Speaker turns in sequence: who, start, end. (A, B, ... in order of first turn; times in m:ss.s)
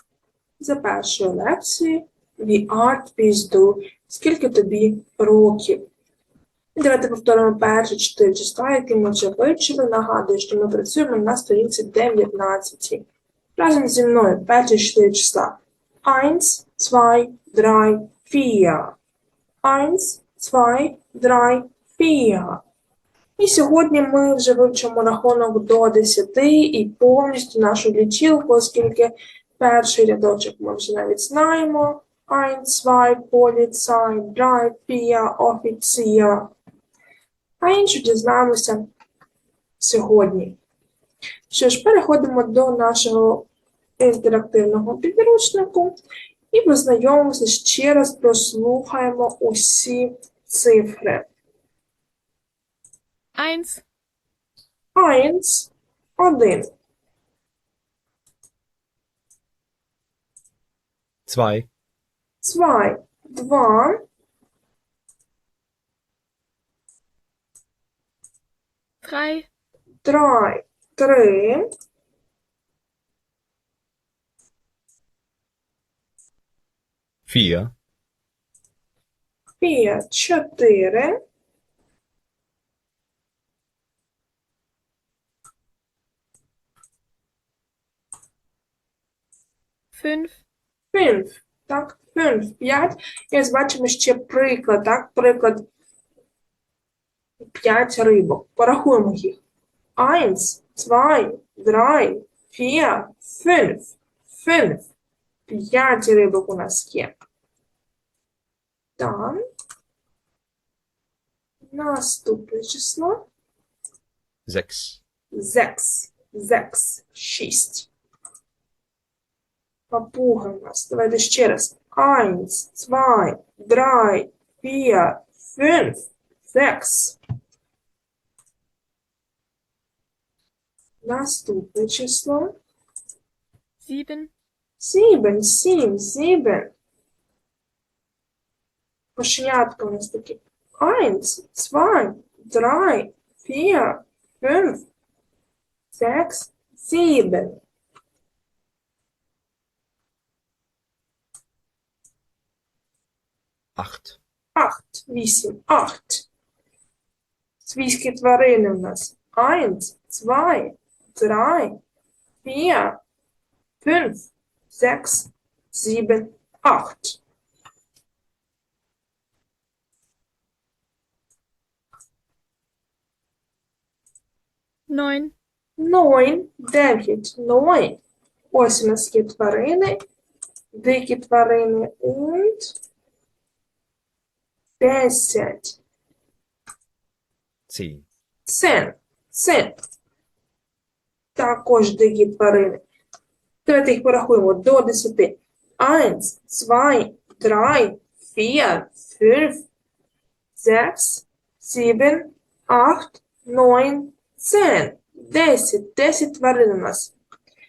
0:00.6-0:05.8 A
0:06.8-0:13.0 A
0:13.6-0:19.0 A
0:19.6-0:22.6 A
0:23.4-0:36.5 A
0:37.6-0:38.9 A
0:39.8-0:40.6 A
0:41.5-0:43.5 A
0:44.0-0:46.0 A
0:46.5-0:51.3 A
0:53.4-0:53.8 B
0:55.0-0:56.7 A
1:01.3-1:01.7 C
1:02.4-1:04.0 A
1:09.0-1:09.5 B
1:10.0-1:11.7 A
1:17.3-1:17.7 C
1:19.6-1:21.2 A
1:30.0-1:30.4 B
1:30.9-1:35.7 A
1:37.4-1:39.4 A
1:40.0-1:44.8 A
1:45.5-1:47.2 A
1:49.0-1:49.4 A
1:51.7-1:53.2 A
1:54.5-1:55.0 C
1:55.3-1:57.9 A
1:59.9-2:07.2 A
2:11.0-2:12.5 A
2:13.8-2:14.3 B
2:14.8-2:16.7 A
2:19.2-2:24.8 A
2:25.9-2:27.6 A
2:33.8-2:34.2 C
2:34.6-2:36.3 A
2:37.6-2:41.8 A
2:42.4-2:43.0 A
2:43.8-2:47.2 A
2:54.9-2:55.3 B
2:55.8-2:58.0 A
2:58.5-3:00.0 A
3:00.7-3:02.7 A
3:04.8-3:05.8 A
3:07.7-3:08.0 C
3:08.5-3:09.8 A
3:11.4-3:12.8 A
3:13.6-3:19.7 A
3:20.6-3:27.1 A